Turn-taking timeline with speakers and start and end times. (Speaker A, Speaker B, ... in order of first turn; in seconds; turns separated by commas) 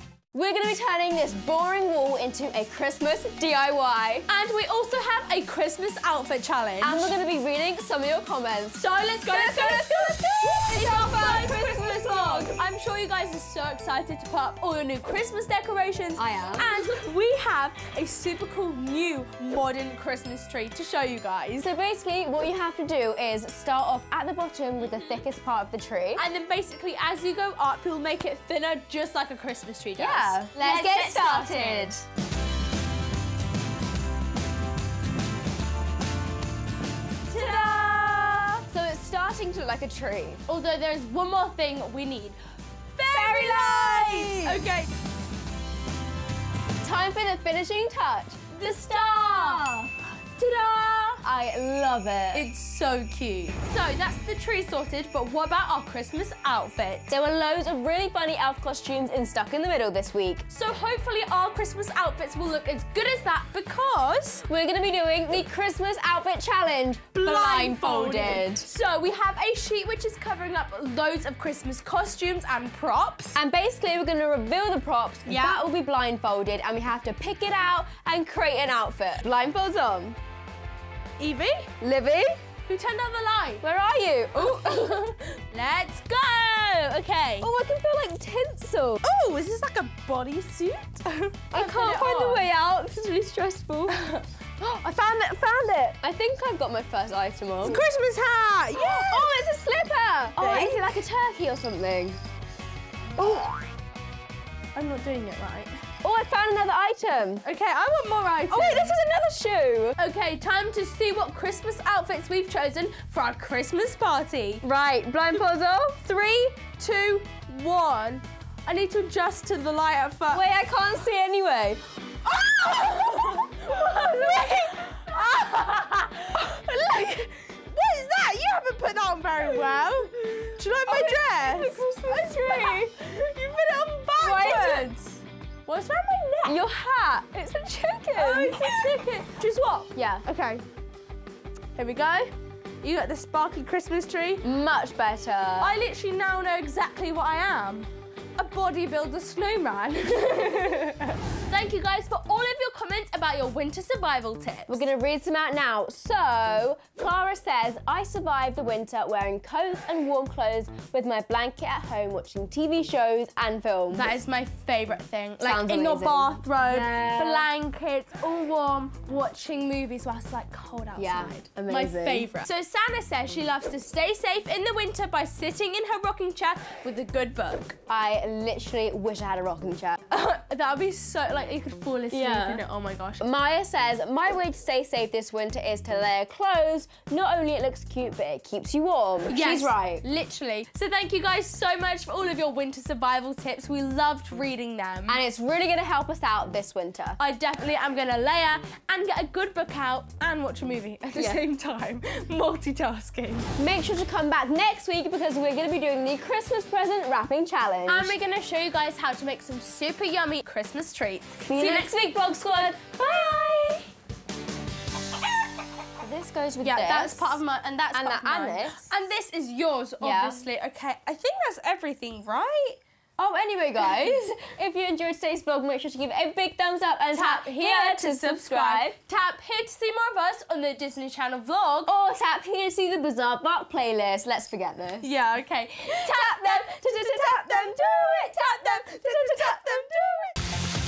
Speaker A: 0.3-4.3, Speaker B: 4.3-7.1, Speaker A: 6.8-12.5, Speaker B: 8.8-21.7, Speaker A: 16.1-16.8, Speaker A: 21.6-26.2, Speaker B: 26.1-31.9, Speaker A: 29.9-32.0, Speaker B: 37.3-38.6, Speaker A: 37.3-40.4, Speaker B: 40.5-42.4, Speaker B: 43.0-44.9, Speaker A: 43.1-44.6, Speaker A: 46.8-49.9, Speaker B: 48.6-51.2, Speaker A: 51.2-52.5, Speaker B: 52.3-57.1, Speaker A: 57.1-60.4, Speaker B: 60.5-64.5, Speaker A: 64.5-68.7, Speaker B: 67.1-73.4, Speaker A: 73.3-80.2, Speaker B: 75.2-75.7, Speaker B: 81.2-81.7, Speaker A: 81.8-82.4, Speaker B: 82.7-83.6, Speaker A: 83.6-85.1, Speaker B: 84.3-87.5, Speaker A: 87.4-89.0, Speaker B: 89.0-92.5, Speaker A: 91.5-94.0, Speaker B: 93.9-94.2, Speaker A: 94.6-97.8, Speaker B: 97.6-99.3, Speaker A: 98.7-102.2, Speaker B: 100.3-100.9, Speaker A: 103.2-103.5, Speaker B: 104.7-105.8, Speaker A: 106.0-107.4, Speaker B: 107.4-109.0, Speaker A: 108.5-110.0, Speaker B: 110.0-114.6, Speaker A: 114.6-116.0, Speaker B: 116.0-120.4, Speaker A: 120.3-121.8, Speaker B: 122.3-136.6, Speaker A: 123.6-124.7, Speaker A: 130.8-132.9, Speaker A: 134.2-134.9, Speaker A: 136.4-139.0, Speaker B: 138.1-140.6, Speaker A: 139.9-140.3, Speaker B: 141.8-144.5, Speaker A: 144.4-145.8, Speaker B: 145.6-154.8, Speaker A: 154.7-164.1, Speaker B: 163.9-177.8, Speaker A: 165.4-167.5, Speaker A: 170.9-172.3, Speaker A: 177.9-180.0, Speaker B: 180.1-183.2, Speaker A: 182.1-182.6, Speaker A: 183.2-190.0, Speaker B: 189.3-195.2, Speaker A: 195.1-197.2, Speaker B: 197.2-203.5, Speaker A: 201.1-201.4, Speaker A: 203.6-208.2, Speaker B: 207.8-212.0, Speaker A: 211.4-213.9, Speaker A: 216.0-217.4, Speaker B: 216.6-222.8, Speaker A: 217.9-218.9, Speaker A: 220.0-220.4, Speaker A: 223.2-229.0, Speaker B: 227.1-231.9, Speaker A: 231.9-235.1, Speaker B: 235.0-240.3, Speaker A: 235.9-240.3